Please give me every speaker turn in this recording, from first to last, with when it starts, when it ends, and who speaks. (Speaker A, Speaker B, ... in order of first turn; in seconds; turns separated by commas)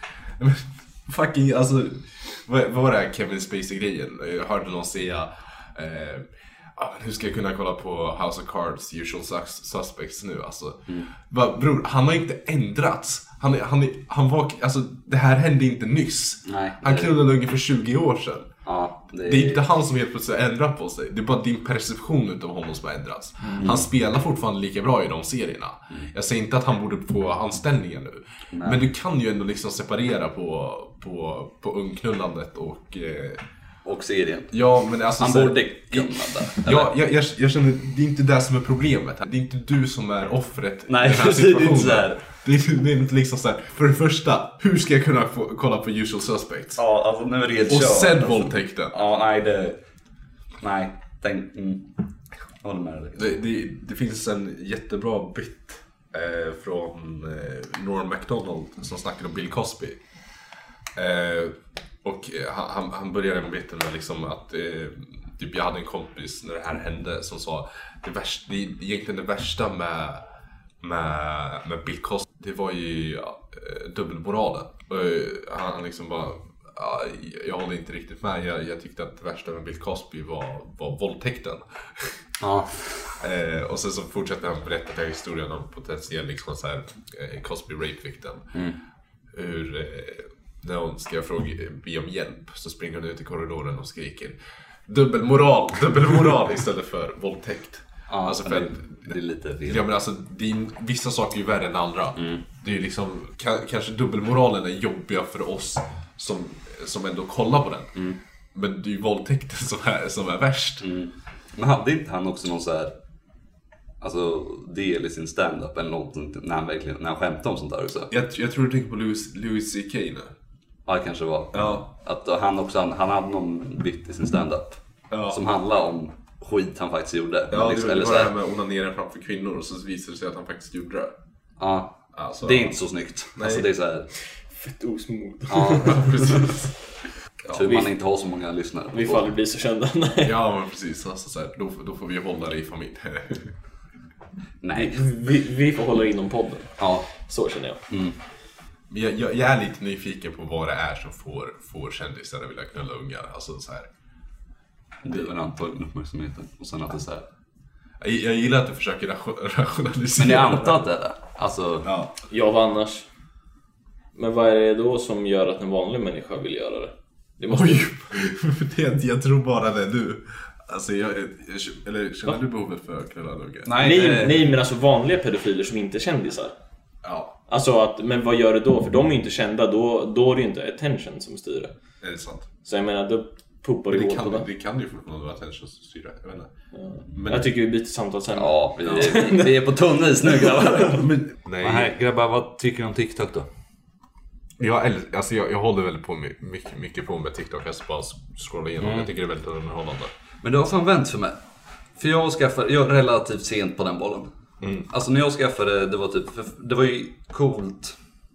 Speaker A: 0.4-18.5, Speaker B: 16.4-17.1, Speaker B: 18.6-19.6, Speaker A: 19.2-33.4, Speaker C: 23.4-23.7, Speaker B: 23.6-23.9, Speaker B: 28.5-28.8, Speaker B: 33.8-34.5, Speaker A: 34.5-46.8, Speaker B: 35.2-36.9, Speaker B: 40.9-42.2, Speaker B: 46.8-49.8, Speaker A: 47.7-48.9, Speaker B: 50.6-51.9, Speaker B: 52.6-53.4, Speaker A: 53.1-60.0, Speaker A: 61.0-70.2, Speaker A: 70.8-82.2, Speaker B: 82.4-83.1, Speaker A: 83.2-88.5, Speaker B: 88.5-88.8, Speaker A: 89.3-94.3, Speaker A: 94.9-99.1, Speaker B: 98.1-99.9, Speaker A: 99.7-108.0, Speaker B: 102.2-102.4, Speaker A: 108.5-110.9, Speaker B: 110.8-112.9, Speaker B: 114.0-118.1, Speaker A: 118.1-120.3, Speaker B: 120.8-128.3, Speaker A: 121.5-121.8, Speaker A: 125.1-125.4, Speaker A: 127.5-131.1, Speaker B: 131.6-134.1, Speaker A: 132.1-132.8, Speaker A: 133.3-133.7, Speaker C: 134.5-136.5, Speaker B: 135.5-136.5, Speaker A: 135.8-136.6, Speaker B: 137.5-139.3, Speaker C: 138.9-140.3, Speaker A: 140.2-143.5, Speaker B: 144.6-145.0, Speaker C: 144.7-147.8, Speaker B: 146.8-147.1, Speaker B: 147.9-148.2, Speaker A: 148.9-153.9, Speaker B: 155.0-157.3, Speaker A: 158.0-160.8, Speaker B: 160.2-161.9, Speaker A: 161.8-162.1, Speaker C: 162.3-163.1, Speaker C: 164.1-167.9, Speaker A: 167.5-173.8, Speaker B: 173.6-174.5, Speaker C: 173.8-176.5, Speaker A: 177.0-177.4, Speaker C: 177.5-181.7, Speaker A: 182.0-182.5, Speaker C: 182.6-184.5, Speaker A: 183.9-186.5, Speaker C: 186.7-191.1, Speaker A: 187.1-187.5, Speaker B: 188.3-193.5, Speaker A: 191.3-191.9, Speaker A: 194.6-200.1, Speaker B: 198.8-199.1, Speaker B: 200.4-201.4, Speaker B: 202.0-204.3, Speaker A: 204.6-204.9, Speaker B: 204.9-208.0